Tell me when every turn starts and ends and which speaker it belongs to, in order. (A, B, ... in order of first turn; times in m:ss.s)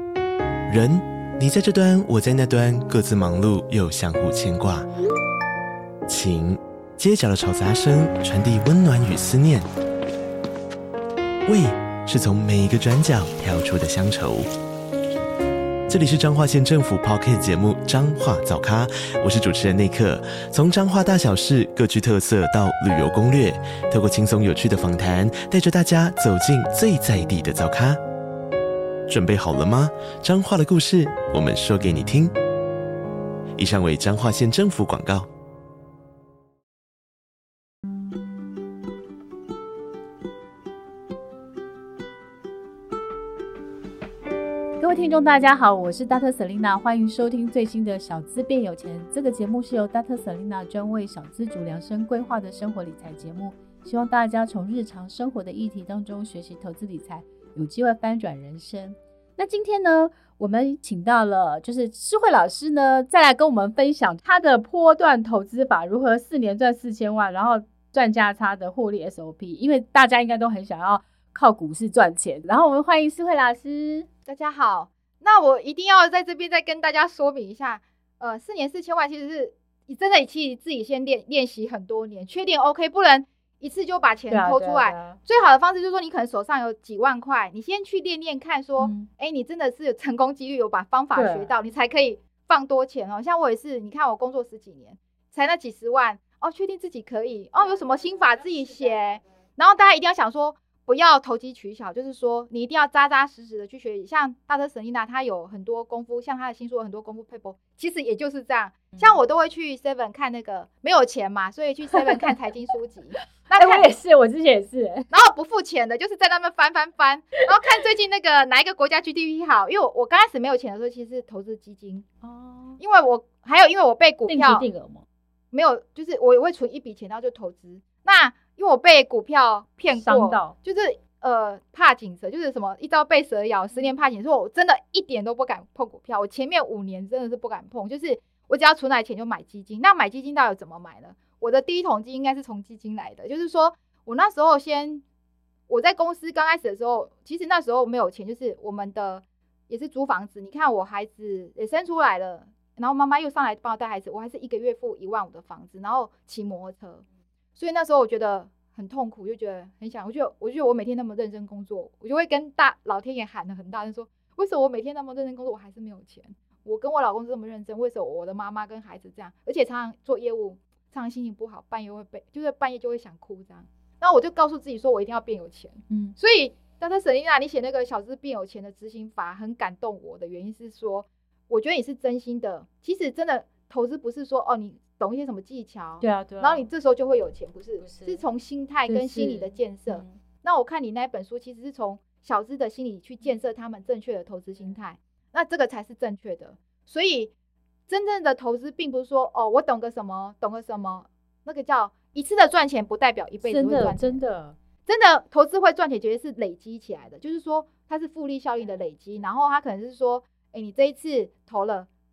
0:00.7-0:04.9 A
0:06.1-0:09.7 A
0:11.5-0:14.5 A
0:15.9-0:28.0 A
0:29.1-0:32.3 A
0:33.6-0:35.3 A
0:44.8-1:14.1 B
1:14.3-1:53.9 C
1:24.3-1:25.2 B
1:28.8-1:29.1 B
1:31.2-1:31.5 B
1:51.9-1:52.3 B
1:53.5-1:55.1 B
1:55.1-2:02.1 C
2:02.2-2:02.8 B
2:02.8-2:04.7 C
2:04.3-2:05.0 B
2:05.5-2:25.0 C
2:09.9-2:10.6 B
2:25.7-2:37.0 C
2:37.6-3:17.3 C
2:55.9-2:56.2 B
3:06.0-3:06.6 B
3:07.8-3:08.2 B
3:08.9-3:10.2 B
3:17.9-3:24.2 C
3:23.4-3:24.6 B
3:24.9-3:31.9 C